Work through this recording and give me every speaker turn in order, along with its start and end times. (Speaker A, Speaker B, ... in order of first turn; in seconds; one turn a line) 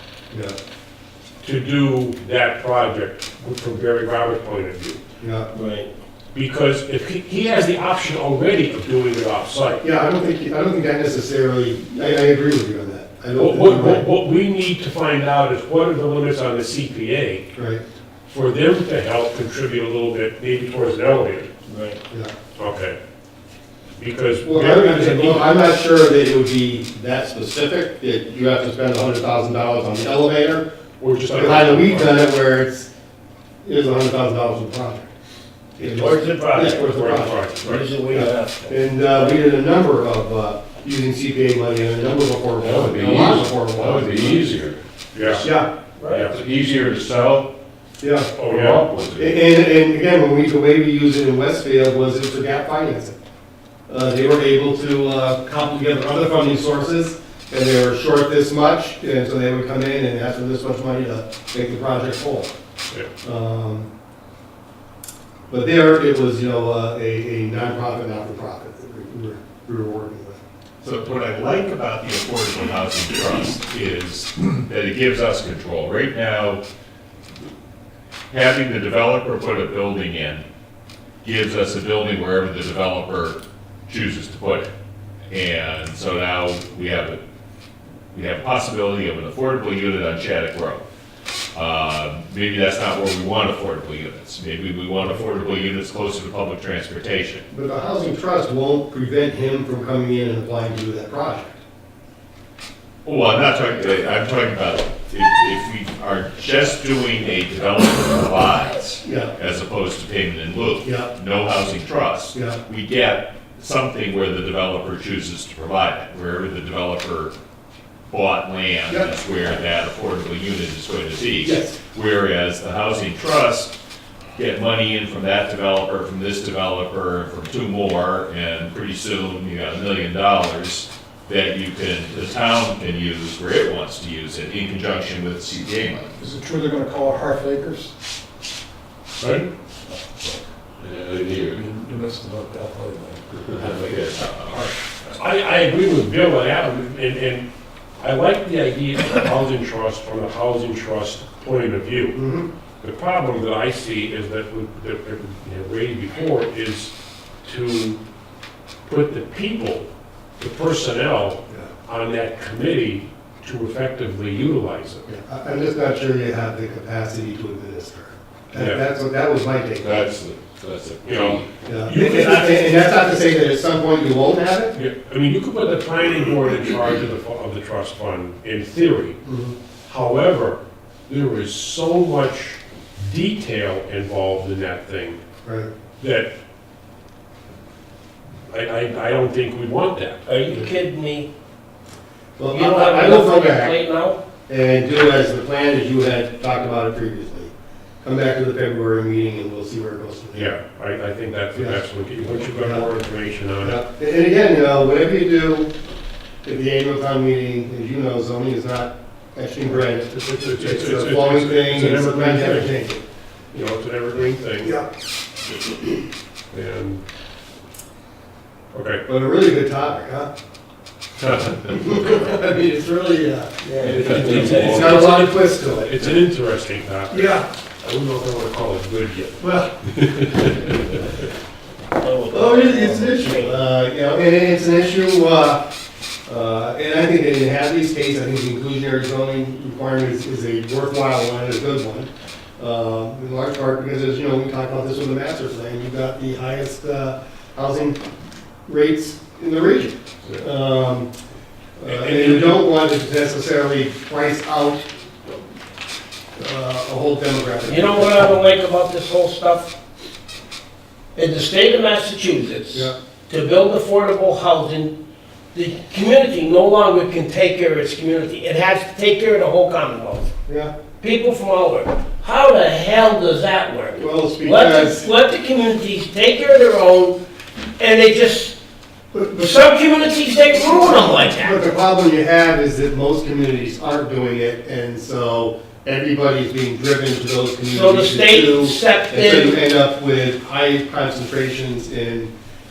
Speaker A: 0.3-0.6
Speaker B: 1.4-5.0
Speaker A: 5.2-5.5
Speaker C: 5.5-5.9
Speaker B: 6.3-9.8
Speaker A: 9.8-14.1
Speaker B: 13.3-17.5
Speaker A: 17.5-17.8
Speaker B: 18.3-21.5
Speaker C: 21.7-22.0
Speaker B: 22.6-23.0
Speaker B: 24.0-25.5
Speaker A: 24.4-30.6
Speaker B: 31.0-32.2
Speaker A: 31.3-32.9
Speaker A: 33.6-35.1
Speaker A: 35.8-44.4
Speaker C: 35.8-36.8
Speaker B: 36.9-37.8
Speaker C: 37.6-39.3
Speaker D: 42.7-44.8
Speaker E: 43.3-43.8
Speaker B: 45.1-45.4
Speaker A: 45.4-45.7
Speaker C: 46.0-46.3
Speaker B: 46.1-46.3
Speaker D: 46.3-47.5
Speaker A: 48.0-48.3
Speaker B: 48.4-48.8
Speaker D: 48.5-49.3
Speaker A: 49.2-53.1
Speaker A: 53.9-62.5
Speaker A: 63.2-63.9
Speaker A: 65.5-70.4
Speaker F: 70.8-76.6
Speaker F: 78.3-80.4
Speaker F: 81.2-84.7
Speaker F: 85.3-87.2
Speaker F: 88.1-90.8
Speaker F: 91.5-97.4
Speaker A: 97.5-101.6
Speaker F: 103.0-117.3
Speaker A: 109.0-109.3
Speaker A: 110.8-111.1
Speaker A: 112.3-112.6
Speaker F: 118.1-123.7
Speaker A: 121.4-121.8
Speaker F: 124.3-136.2
Speaker E: 136.2-137.9
Speaker E: 140.1-140.4
Speaker E: 140.9-144.0
Speaker F: 143.5-144.7
Speaker B: 145.2-147.5
Speaker B: 148.0-152.2
Speaker A: 152.1-152.5
Speaker B: 152.8-156.9
Speaker B: 157.4-158.0
Speaker B: 158.8-165.1
Speaker A: 165.1-170.1
Speaker B: 168.5-168.8
Speaker D: 169.8-171.4
Speaker B: 171.0-173.0
Speaker A: 171.7-174.8
Speaker B: 174.7-179.2
Speaker A: 179.2-179.6
Speaker B: 179.8-185.2
Speaker B: 186.0-186.3
Speaker B: 188.5-190.4
Speaker C: 190.3-191.3
Speaker A: 192.4-193.8
Speaker C: 192.5-194.2
Speaker A: 194.5-197.5
Speaker A: 198.0-200.5
Speaker B: 200.3-203.8
Speaker A: 201.5-201.8
Speaker A: 202.4-202.9
Speaker A: 203.6-205.7
Speaker A: 206.4-213.0
Speaker B: 210.1-212.8
Speaker B: 213.5-214.7
Speaker A: 214.6-214.9
Speaker B: 216.5-217.0
Speaker B: 218.7-219.0
Speaker A: 219.1-220.3
Speaker A: 221.3-226.1
Speaker C: 223.6-225.0
Speaker B: 223.8-230.9
Speaker A: 227.1-227.4
Speaker A: 229.4-229.7
Speaker C: 232.0-233.7
Speaker A: 232.3-235.6
Speaker A: 236.2-248.0
Speaker A: 248.7-251.1
Speaker A: 251.8-254.9
Speaker B: 251.9-252.7
Speaker A: 256.4-258.3
Speaker C: 257.6-259.7
Speaker C: 261.1-264.9
Speaker C: 265.5-270.3
Speaker A: 270.5-270.7
Speaker C: 271.0-277.2
Speaker A: 273.9-275.1
Speaker C: 277.8-278.6
Speaker A: 279.1-279.5
Speaker C: 279.3-281.6
Speaker A: 280.5-292.3
Speaker C: 287.7-289.6